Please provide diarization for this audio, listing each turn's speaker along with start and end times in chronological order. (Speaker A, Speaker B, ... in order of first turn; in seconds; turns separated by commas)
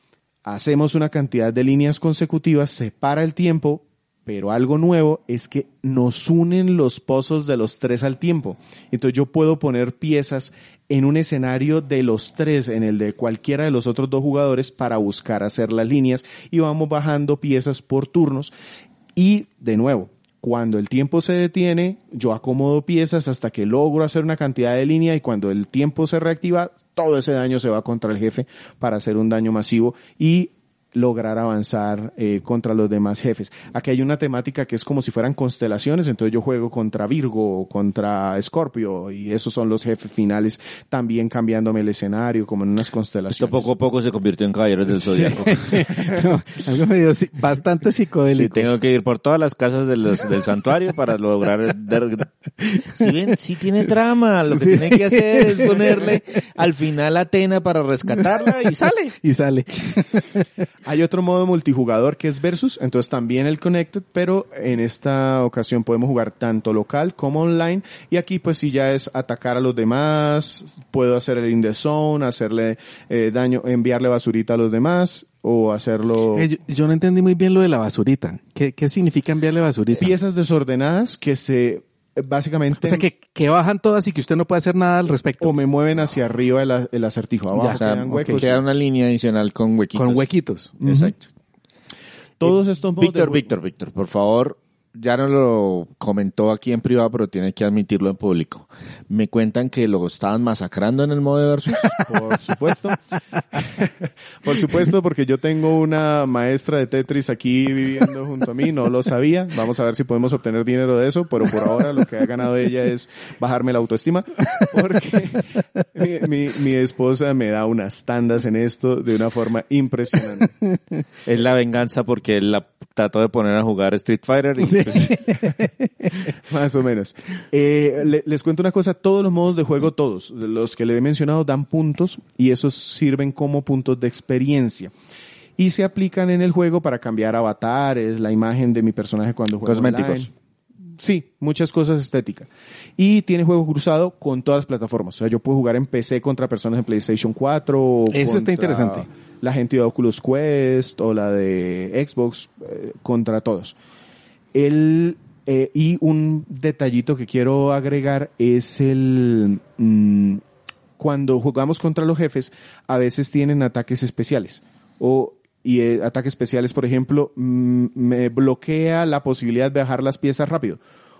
Speaker A: 0.4-18.5, Speaker A: 19.1-43.7, Speaker B: 43.4-46.0, Speaker C: 45.0-48.7, Speaker B: 48.3-52.3, Speaker C: 52.6-53.0, Speaker B: 52.9-59.2, Speaker C: 54.5-56.1, Speaker C: 59.2-60.4, Speaker A: 60.8-76.5, Speaker C: 76.3-80.0, Speaker A: 80.0-83.1, Speaker C: 82.8-85.6, Speaker A: 85.4-88.6, Speaker C: 87.5-88.5, Speaker B: 87.7-90.2, Speaker C: 89.9-90.7, Speaker A: 90.8-91.1, Speaker B: 90.8-91.2, Speaker A: 92.4-93.5, Speaker B: 92.4-102.0, Speaker A: 102.0-103.0, Speaker A: 103.5-120.5, Speaker B: 121.2-125.4, Speaker C: 124.7-126.2, Speaker A: 126.4-134.9, Speaker A: 135.6-140.3, Speaker B: 139.6-140.3, Speaker A: 141.0-153.8, Speaker C: 148.1-149.1, Speaker A: 154.5-160.4, Speaker A: 161.0-170.8